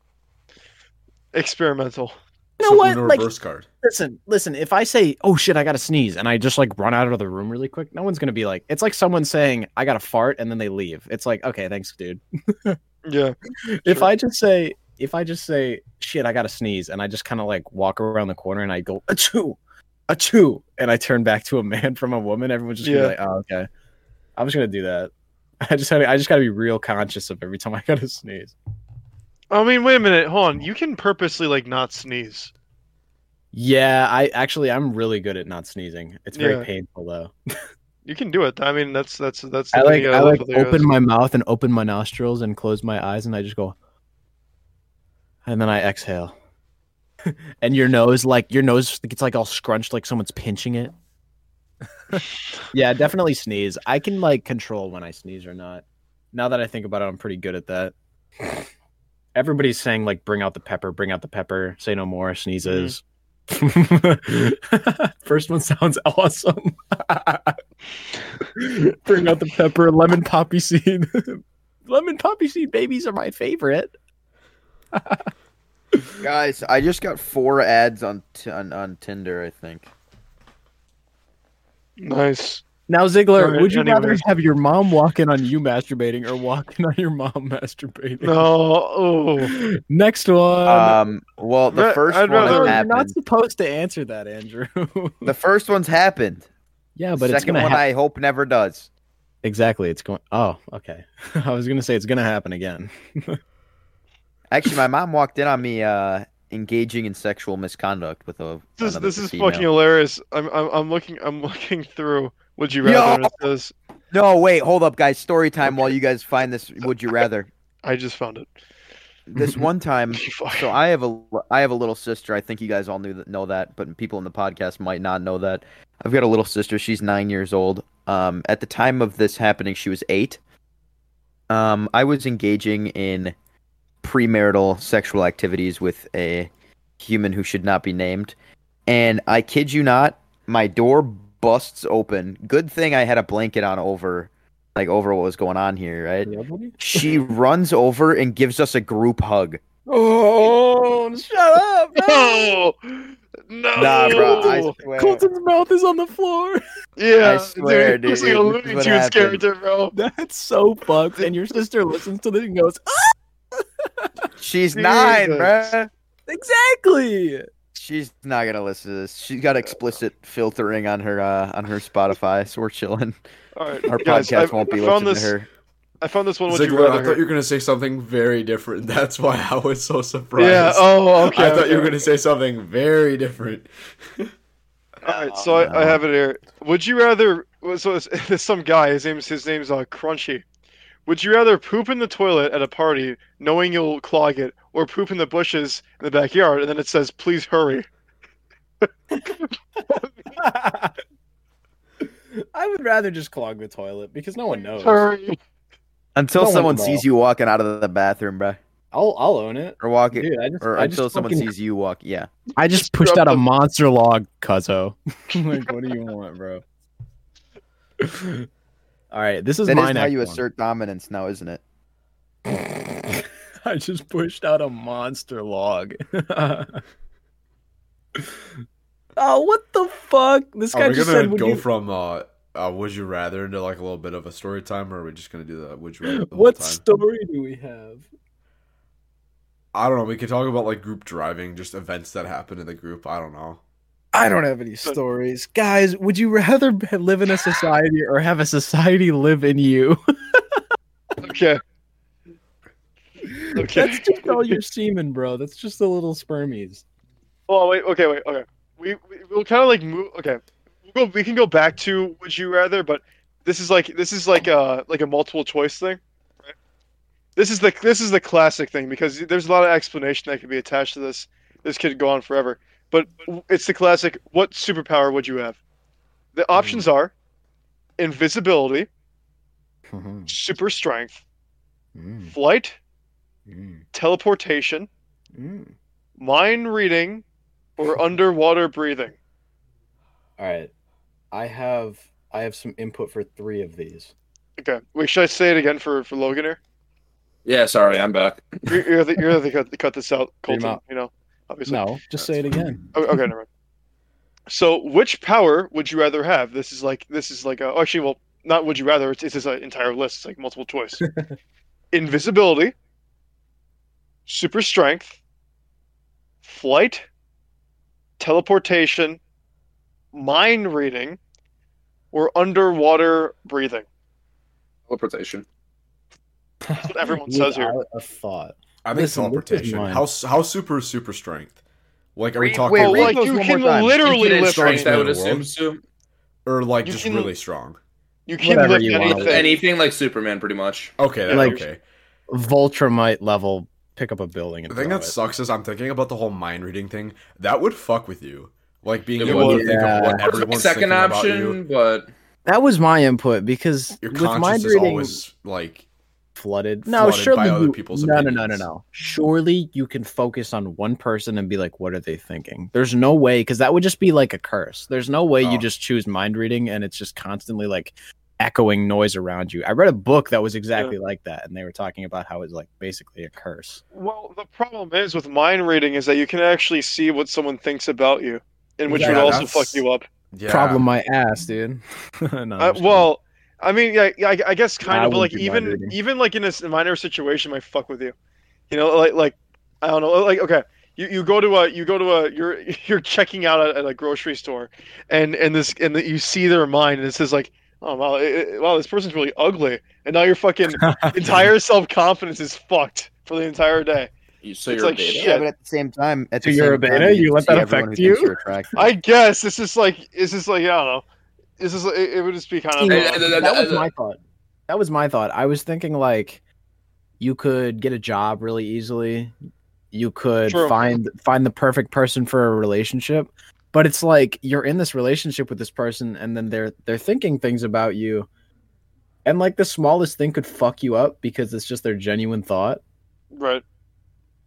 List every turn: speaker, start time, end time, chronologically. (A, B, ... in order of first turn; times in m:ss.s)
0:01.3-0:02.2 A
0:02.6-0:03.3 B
0:02.6-0:03.7 C
0:03.8-0:12.8 B
0:13.0-0:13.4 A
0:13.6-0:19.6 B
0:20.1-0:23.7 B
0:22.8-0:23.2 A
0:24.4-0:25.1 B
0:25.6-0:28.6 B
0:29.5-0:32.5 A
0:33.5-0:37.3 B
0:36.4-0:36.7 A
0:38.0-0:40.9 A
0:39.7-0:43.8 B
0:45.5-0:46.4 B
0:47.3-0:50.9 B
0:52.7-0:58.6 B
0:59.4-1:07.6 B
1:02.6-1:02.9 A
1:08.5-1:13.9 B
1:14.9-1:15.3 B
1:16.2-1:19.9 D
1:22.0-1:22.6 A
1:22.9-1:28.5 B
1:23.4-1:24.2 A
1:28.2-1:29.5 A
1:29.4-1:31.0 B
1:30.7-1:33.1 D
1:31.7-1:32.8 A
1:32.3-1:35.3 B
1:35.2-1:36.4 D
1:37.0-1:37.8 B
1:37.2-1:38.9 D
1:39.4-1:43.4 B
1:44.5-1:49.7 D
1:48.8-1:53.7 A
1:52.8-1:53.4 D
1:54.1-1:57.5 D
1:57.8-1:58.5 A
1:59.3-2:10.4 D
2:00.2-2:00.7 A
2:11.5-2:13.3 D
2:14.0-2:18.3 D
2:18.9-2:29.6 D
2:26.2-2:26.8 B
2:27.0-2:27.3 A
2:29.9-2:32.5 B
2:32.0-2:34.7 A
2:33.8-2:35.2 D
2:34.1-2:36.6 B
2:37.0-2:39.9 A
2:37.2-2:39.4 D
2:39.9-2:43.2 B
2:44.4-2:45.9 D
2:44.7-2:45.7 A
2:46.3-2:47.5 B
2:47.8-2:53.2 D
2:53.6-2:55.4 A
2:53.9-2:55.5 D
2:56.0-2:57.2 A
2:56.5-3:04.3 C
3:00.4-3:02.0 A
3:05.0-3:10.4 A
3:05.0-3:06.0 D
3:11.1-3:17.9 A
3:20.4-3:21.0 B
3:22.4-3:25.0 B
3:24.6-3:25.4 A
3:26.2-3:28.6 D
3:26.4-3:27.0 B
3:28.9-3:31.5 B
3:29.8-3:32.3 D
3:32.6-3:36.6 B
3:32.7-3:33.4 A
3:38.0-3:38.5 B
3:39.1-3:40.4 B
3:39.7-3:41.6 D
3:42.5-3:46.8 B
3:49.2-3:51.6 B
3:50.7-3:56.8 C
3:56.0-3:58.1 B
3:59.7-4:03.6 C
4:04.1-4:10.6 B
4:11.2-4:11.6 A
4:13.2-4:16.8 B
4:13.6-4:14.6 A
4:17.5-4:26.5 A
4:27.4-4:35.6 A
4:36.4-4:37.1 A
4:36.6-4:36.9 B
4:38.0-4:38.9 A
4:39.9-4:40.3 B
4:40.3-4:41.2 A
4:42.0-4:42.3 B
4:42.3-4:42.8 A
4:43.5-4:43.8 B
4:43.9-4:44.9 A
4:45.4-4:45.7 B
4:46.2-4:47.2 A
4:47.8-4:49.2 A
4:50.4-4:50.7 B
4:51.3-4:54.1 B
4:54.6-4:56.6 A
4:57.4-4:58.8 E
4:58.7-5:01.9 A
5:00.5-5:00.8 B
5:01.7-5:03.2 B
5:02.9-5:03.5 A
5:04.5-5:11.0 A
5:11.9-5:12.7 A
5:14.3-5:15.2 A
5:16.4-5:17.0 A
5:18.2-5:19.2 A
5:20.1-5:21.2 A
5:22.1-5:23.8 A
5:24.9-5:25.4 E
5:26.6-5:30.1 B
5:26.9-5:27.8 A
5:28.8-5:31.6 C
5:32.2-5:33.2 C
5:32.4-5:34.2 D
5:32.7-5:34.9 A
5:34.0-5:35.8 E
5:34.4-5:35.5 C
5:36.5-5:37.8 C
5:36.8-5:37.3 A
5:38.3-5:39.5 A
5:38.4-5:39.5 B
5:39.1-5:40.9 E
5:41.0-5:41.8 C
5:41.3-5:41.6 B
5:42.3-5:45.2 B
5:44.7-5:51.6 C
5:49.2-5:52.1 E
5:49.2-5:50.3 B
5:52.5-5:55.2 B
5:54.0-5:55.9 C
5:56.4-6:13.8 B
5:56.8-5:58.7 C
6:05.4-6:05.7 C
6:13.9-6:20.0 A
6:18.9-6:19.4 B
6:18.9-6:20.8 C
6:20.5-6:23.1 B
6:22.6-6:28.1 A
6:24.8-6:26.0 B
6:28.7-6:44.1 A
6:40.7-6:41.5 B
6:44.4-6:45.3 E
6:44.7-6:45.5 A
6:45.2-6:48.8 D
6:46.4-6:48.4 B
6:48.8-6:51.0 A
6:51.6-6:53.3 A
6:52.8-6:56.4 B
6:52.9-6:53.9 E
6:57.2-6:59.3 B
6:59.9-7:08.3 B
7:00.5-7:01.0 A
7:09.2-7:12.8 B
7:13.3-7:13.6 A